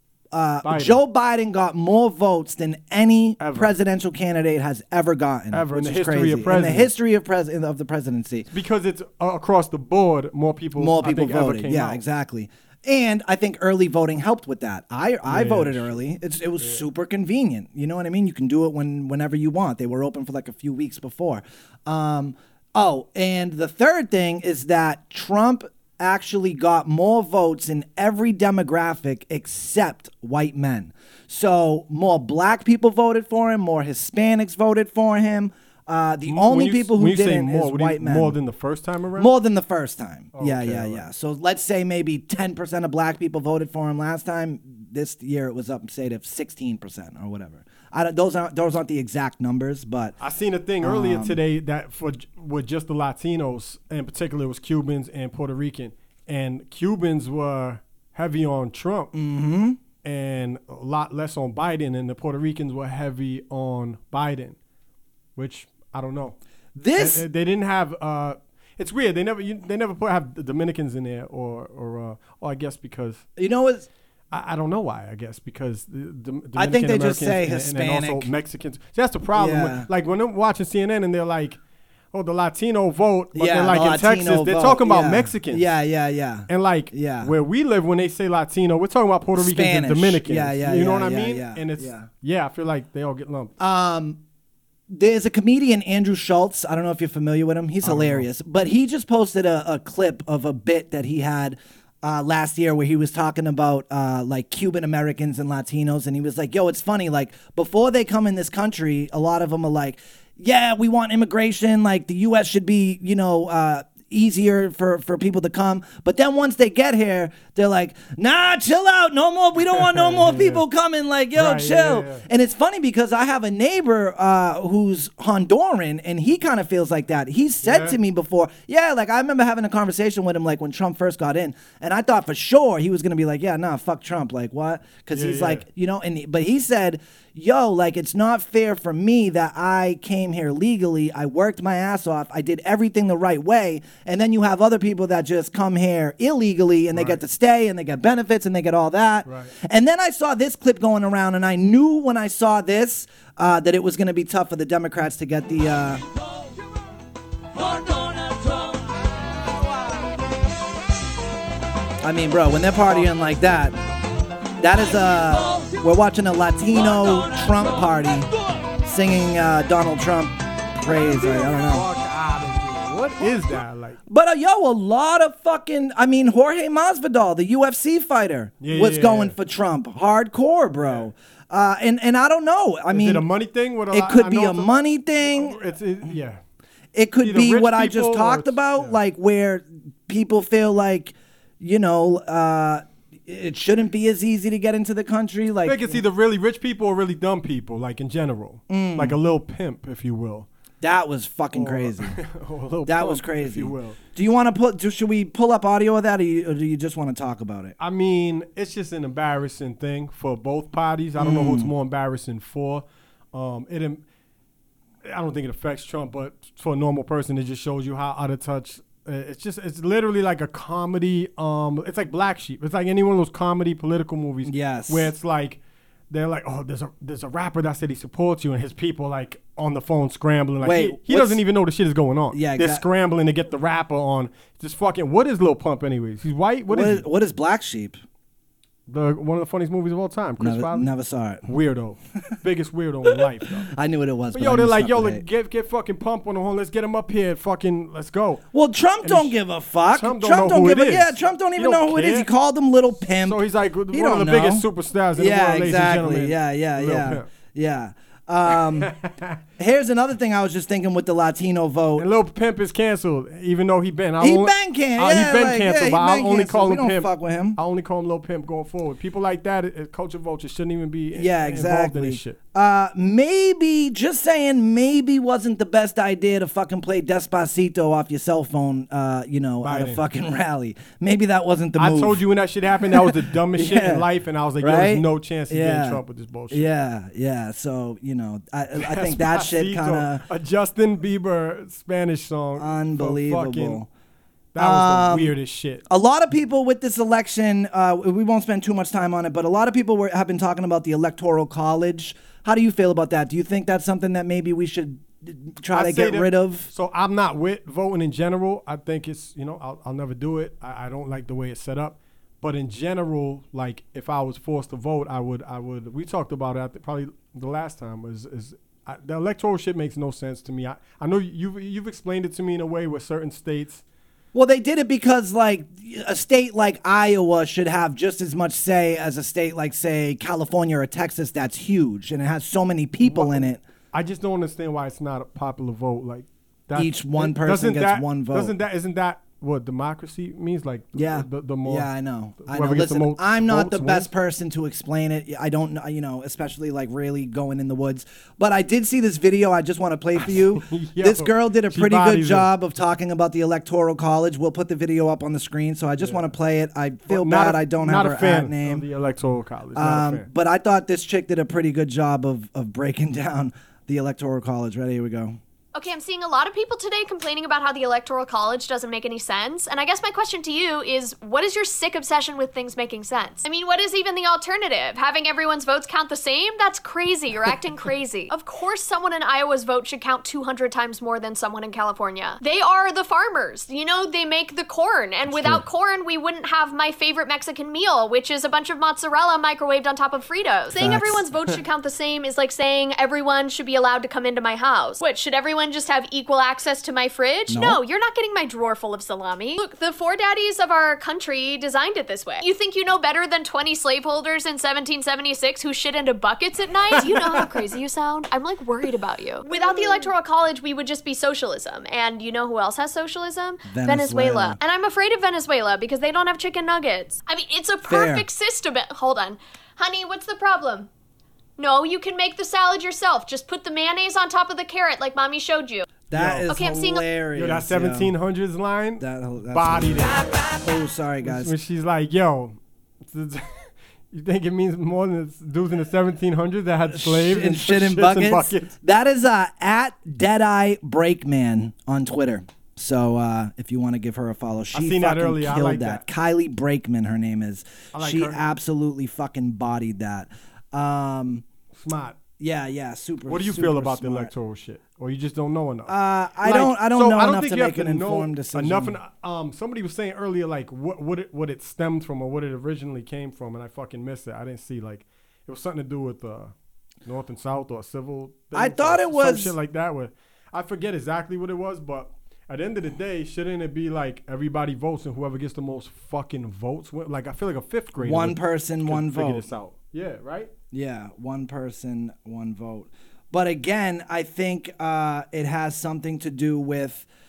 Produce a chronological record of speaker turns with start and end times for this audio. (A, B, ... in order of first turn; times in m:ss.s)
0:00.3-0:08.5 A
0:00.6-0:01.0 B
0:03.4-0:03.7 B
0:05.5-0:06.9 B
0:08.5-0:12.0 B
0:10.8-0:38.4 A
0:15.3-0:16.0 B
0:36.3-0:39.3 B
0:39.2-0:50.2 A
0:40.3-0:41.1 B
0:50.2-0:59.1 B
0:50.8-0:51.4 A
0:59.1-0:59.8 A
1:00.0-1:04.6 B
1:05.4-1:06.4 B
1:06.8-1:07.2 A
1:07.0-1:13.2 B
1:13.4-1:13.9 A
1:14.3-1:21.6 B
1:16.6-1:18.3 A
1:19.3-1:19.9 A
1:22.1-1:25.7 B
1:23.3-1:27.3 A
1:26.5-1:33.5 B
1:29.4-1:32.1 A
1:33.6-1:34.2 A
1:34.9-2:36.0 A
1:37.8-1:38.3 B
1:59.7-2:00.6 B
2:01.4-2:02.2 B
2:07.6-2:08.0 B
2:15.1-2:15.6 B
2:26.9-2:27.2 B
2:29.3-2:29.5 B
2:42.0-2:43.8 A
2:44.6-2:48.3 A
2:48.8-2:51.9 A
2:51.3-2:54.0 B
2:54.1-3:03.2 A
2:58.6-2:59.4 B
3:00.8-3:01.1 B
3:02.9-3:04.7 B
3:03.9-3:05.6 A
3:05.2-3:06.4 B
3:06.9-3:16.0 A
3:07.2-3:09.0 B
3:15.6-3:20.5 B
3:18.7-3:19.2 A
3:20.8-3:22.2 A
3:21.6-3:24.0 B
3:22.9-3:27.8 A
3:27.8-3:34.0 B
3:31.2-3:31.7 A
3:35.0-3:45.6 B
3:44.4-3:45.1 A
3:46.1-3:57.1 B
3:50.6-3:51.4 A
3:52.3-3:52.8 A
3:56.7-3:58.0 A
3:58.9-4:00.9 B
4:00.4-4:01.5 A
4:01.5-4:03.7 B
4:03.7-4:05.2 A
4:04.3-4:08.4 B
4:08.5-4:14.6 A
4:09.0-4:09.4 B
4:09.9-4:12.3 B
4:13.1-4:17.3 B
4:15.2-4:18.9 A
4:18.5-4:19.4 B
4:19.6-4:22.1 A
4:22.0-4:32.4 B
4:24.2-4:27.6 A
4:31.2-4:42.2 A
4:39.6-4:40.0 B
4:41.8-4:46.7 B
4:42.8-4:44.0 A
4:44.6-4:50.2 A
4:48.8-4:53.8 B
4:52.6-4:53.9 A
4:54.5-4:55.8 B
4:54.6-4:55.3 A
4:55.9-5:06.7 A
5:05.7-5:23.8 B
5:24.3-5:33.6 A
5:33.0-5:41.9 B
5:36.7-5:38.5 A
5:40.9-5:58.8 A
5:42.4-5:44.1 B
5:50.2-5:52.5 B
5:56.0-5:56.3 B
5:57.1-6:00.3 B
5:59.8-6:05.4 A
6:05.8-7:00.9 C
6:25.3-6:25.6 B
6:30.7-6:31.3 A
6:37.5-6:37.8 A
6:49.5-6:50.1 A
6:53.7-6:54.6 A
6:57.8-6:58.3 A
7:01.6-7:05.9 C
7:06.1-7:08.1 A
7:06.1-7:06.5 B
7:06.5-7:07.1 C
7:07.4-7:10.2 B
7:09.0-7:11.5 A
7:11.2-7:18.7 B
7:16.9-7:31.4 A
7:24.7-7:26.0 B
7:27.9-7:28.4 B
7:31.7-7:32.2 B
7:32.4-7:34.3 A
7:33.3-7:46.5 B
7:35.9-7:39.0 A
7:47.0-8:00.5 B
7:48.5-7:49.6 A
7:58.0-7:59.4 A
8:00.7-8:07.1 A